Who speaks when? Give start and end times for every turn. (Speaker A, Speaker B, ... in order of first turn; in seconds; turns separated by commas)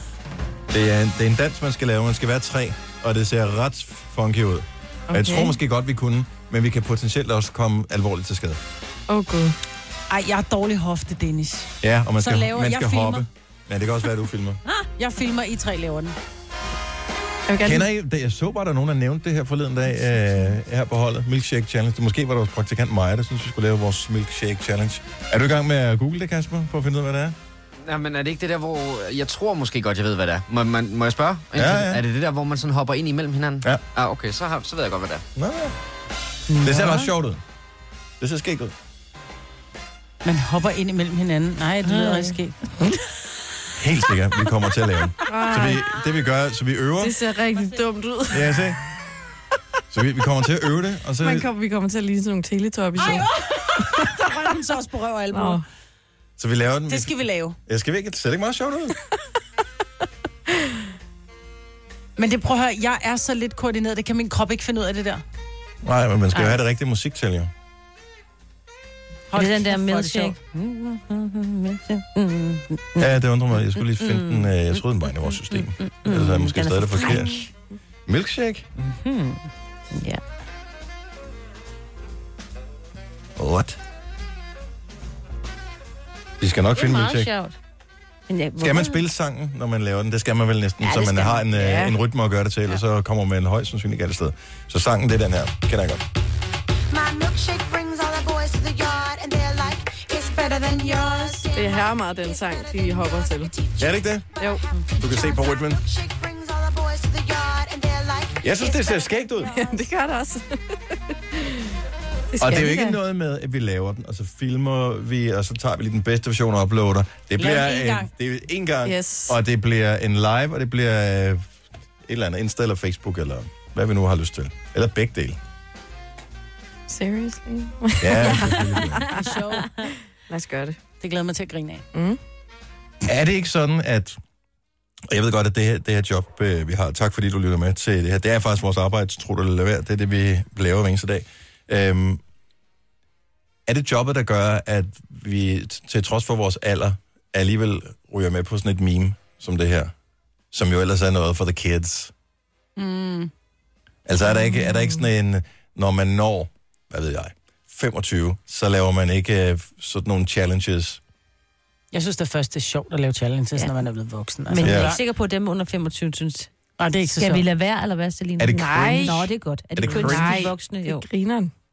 Speaker A: 0.7-8.6, Speaker B: 5.1-5.5, Speaker B: 9.1-9.6, Speaker C: 10.1-13.2, Speaker A: 11.8-14.6, Speaker C: 15.0-16.1, Speaker B: 17.5-17.9, Speaker A: 17.6-27.4, Speaker D: 27.9-35.2, Speaker A: 31.5-32.0, Speaker A: 35.4-35.7, Speaker E: 36.6-37.0, Speaker A: 36.6-37.4, Speaker A: 38.2-38.7, Speaker C: 40.2-42.6, Speaker E: 42.1-42.3, Speaker A: 43.8-47.2, Speaker B: 45.2-45.9, Speaker B: 47.0-48.6, Speaker A: 48.3-48.8, Speaker A: 49.9-51.5, Speaker B: 51.2-53.3, Speaker C: 53.0-55.6, Speaker B: 55.3-55.6, Speaker A: 56.4-57.1, Speaker C: 56.9-57.6, Speaker A: 57.7-58.9, Speaker C: 62.2-65.2, Speaker A: 65.8-67.5, Speaker C: 69.3-70.3, Speaker E: 69.3-77.5, Speaker A: 73.0-77.4, Speaker A: 78.1-78.7, Speaker E: 78.8-80.2, Speaker A: 83.4-83.8, Speaker A: 86.4-87.3, Speaker E: 86.7-87.5, Speaker E: 88.3-89.0, Speaker A: 88.6-96.0, Speaker E: 90.8-91.5, Speaker B: 91.5-92.0, Speaker F: 96.9-109.9, Speaker B: 101.5-103.5, Speaker A: 103.8-104.2, Speaker B: 104.4-104.6, Speaker A: 105.0-105.8, Speaker A: 108.4-109.5, Speaker B: 109.5-110.5, Speaker B: 112.3-113.0, Speaker A: 112.4-121.5, Speaker C: 117.4-118.1, Speaker B: 118.8-119.4, Speaker A: 122.0-125.4, Speaker B: 126.9-129.0, Speaker A: 128.0-129.0, Speaker C: 129.1-129.7, Speaker B: 130.3-130.8, Speaker C: 131.0-131.8, Speaker B: 131.9-132.2, Speaker A: 133.0-134.2, Speaker A: 135.1-142.2, Speaker A: 143.7-149.9, Speaker A: 150.5-152.1, Speaker C: 152.8-153.3, Speaker A: 154.1-161.0, Speaker B: 154.4-154.8, Speaker C: 161.9-165.0, Speaker E: 164.5-166.5, Speaker A: 164.6-164.9, Speaker C: 166.8-167.4, Speaker E: 167.1-171.1, Speaker A: 168.4-169.2, Speaker B: 168.5-169.2, Speaker A: 169.8-170.4, Speaker B: 169.8-171.5